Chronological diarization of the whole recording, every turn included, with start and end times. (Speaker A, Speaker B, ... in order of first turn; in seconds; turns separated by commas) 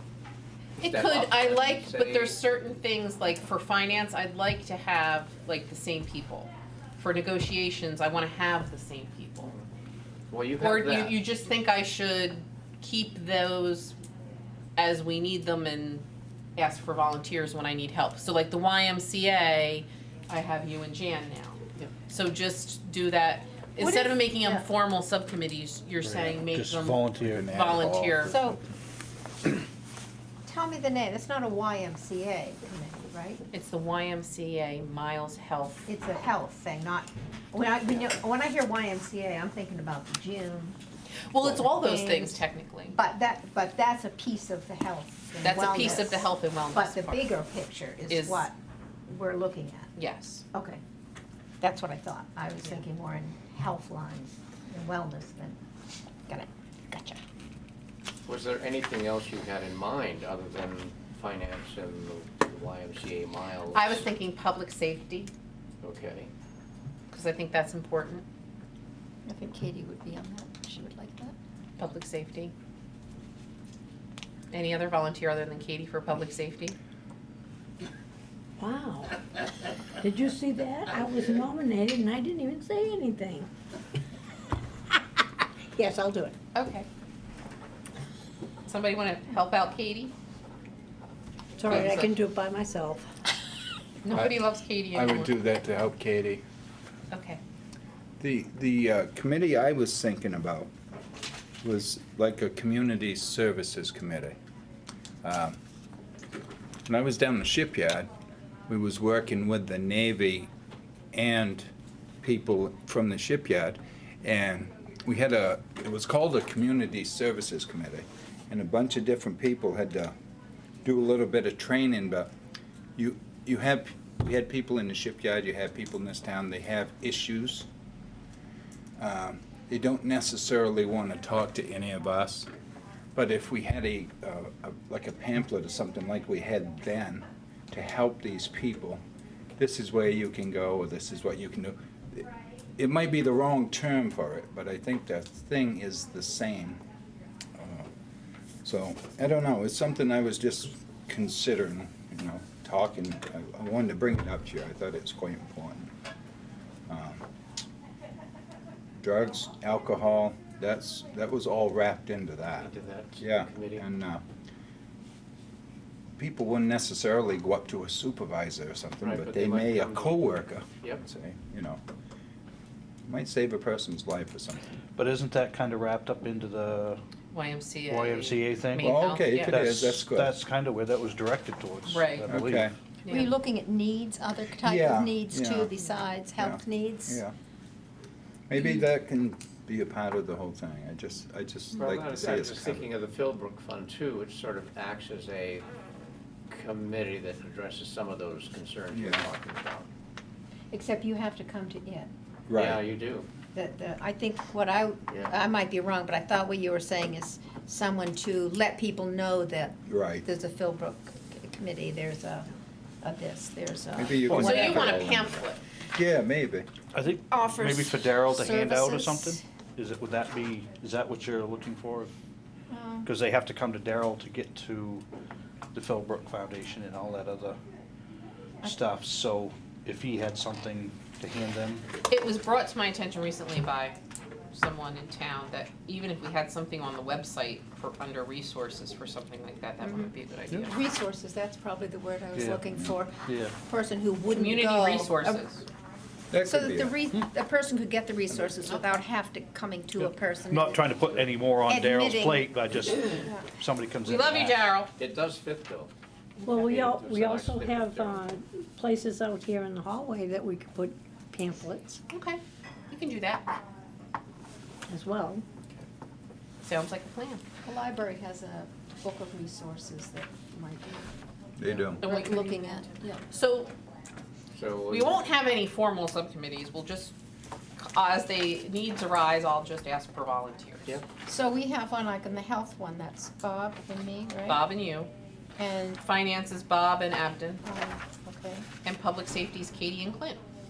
Speaker A: 0.8-2.4, Speaker B: 0.8-9.5, Speaker A: 9.4-9.7, Speaker A: 10.3-11.2, Speaker B: 10.6-13.9, Speaker B: 14.8-16.0, Speaker B: 16.6-28.4, Speaker C: 23.8-24.6, Speaker D: 26.0-27.5, Speaker E: 27.2-28.6, Speaker C: 28.3-28.6, Speaker C: 30.4-33.4, Speaker B: 33.5-35.8, Speaker C: 35.9-40.8, Speaker B: 41.3-43.0, Speaker C: 41.4-48.5, Speaker B: 45.4-47.3, Speaker B: 48.1-48.5, Speaker C: 49.1-49.9, Speaker B: 50.0-50.4, Speaker C: 50.5-50.8, Speaker C: 51.6-55.6, Speaker C: 56.3-57.2, Speaker A: 58.2-64.1, Speaker B: 63.7-65.3, Speaker A: 65.8-66.3, Speaker B: 67.1-68.2, Speaker C: 69.2-71.3, Speaker B: 71.8-72.5, Speaker B: 74.5-76.8, Speaker F: 78.6-79.2, Speaker F: 80.0-83.5, Speaker F: 85.7-86.3, Speaker B: 86.5-86.8, Speaker B: 88.7-90.1, Speaker F: 91.6-93.1, Speaker B: 91.6-92.2, Speaker E: 91.7-91.9, Speaker B: 94.0-95.3, Speaker E: 94.1-94.4, Speaker E: 94.9-96.4, Speaker B: 97.1-97.4, Speaker E: 98.2-100.7, Speaker E: 101.6-104.3, Speaker E: 105.2-105.6, Speaker E: 106.9-108.1, Speaker E: 108.7-110.5, Speaker E: 111.1-111.7, Speaker E: 112.2-120.1, Speaker E: 120.8-122.3, Speaker E: 123.0-127.7, Speaker E: 129.0-132.5, Speaker E: 133.1-139.0, Speaker E: 139.6-146.8, Speaker E: 147.6-147.9, Speaker E: 148.6-155.9, Speaker E: 156.9-157.2, Speaker E: 159.0-164.2, Speaker A: 162.6-163.8, Speaker E: 166.2-171.8, Speaker A: 169.0-171.0, Speaker E: 173.1-174.6, Speaker D: 175.0-177.0, Speaker B: 177.3-179.5, Speaker D: 177.9-182.7, Speaker E: 178.8-180.3, Speaker B: 181.9-182.2, Speaker E: 182.3-182.7, Speaker B: 183.0-183.3, Speaker C: 183.1-187.2, Speaker E: 184.6-185.7, Speaker E: 186.3-187.3, Speaker E: 188.5-192.9, Speaker A: 191.7-195.7, Speaker A: 196.5-199.9, Speaker E: 198.9-199.3, Speaker C: 200.7-202.1, Speaker E: 202.5-202.9, Speaker A: 202.5-203.3, Speaker C: 203.5-212.5, Speaker E: 209.9-210.2, Speaker C: 213.0-215.1, Speaker E: 213.9-216.7, Speaker D: 214.2-214.7, Speaker B: 214.3-215.6, Speaker D: 216.9-222.1, Speaker C: 217.3-219.4, Speaker C: 222.7-223.1, Speaker D: 223.0-225.0, Speaker D: 225.7-227.6, Speaker D: 228.6-231.8, Speaker B: 232.1-234.0, Speaker B: 234.5-240.7, Speaker C: 239.8-245.4, Speaker D: 242.3-243.6, Speaker B: 244.3-245.6, Speaker E: 246.3-247.0, Speaker C: 246.4-251.1, Speaker D: 250.0-254.6, Speaker C: 251.6-252.5, Speaker C: 253.2-253.4, Speaker B: 254.0-254.9, Speaker A: 254.9-255.9, Speaker F: 256.4-262.0, Speaker A: 256.4-258.4, Speaker B: 262.1-263.6, Speaker F: 264.9-265.4, Speaker B: 266.6-267.4, Speaker C: 267.6-271.1, Speaker E: 271.6-272.0, Speaker C: 271.6-273.2, Speaker B: 272.0-273.7, Speaker A: 274.5-275.3, Speaker B: 274.9-277.1, Speaker B: 277.8-281.0, Speaker C: 281.2-284.6, Speaker B: 284.4-285.1, Speaker C: 285.6-286.0, Speaker B: 286.0-287.6, Speaker C: 287.6-288.6, Speaker B: 288.8-290.4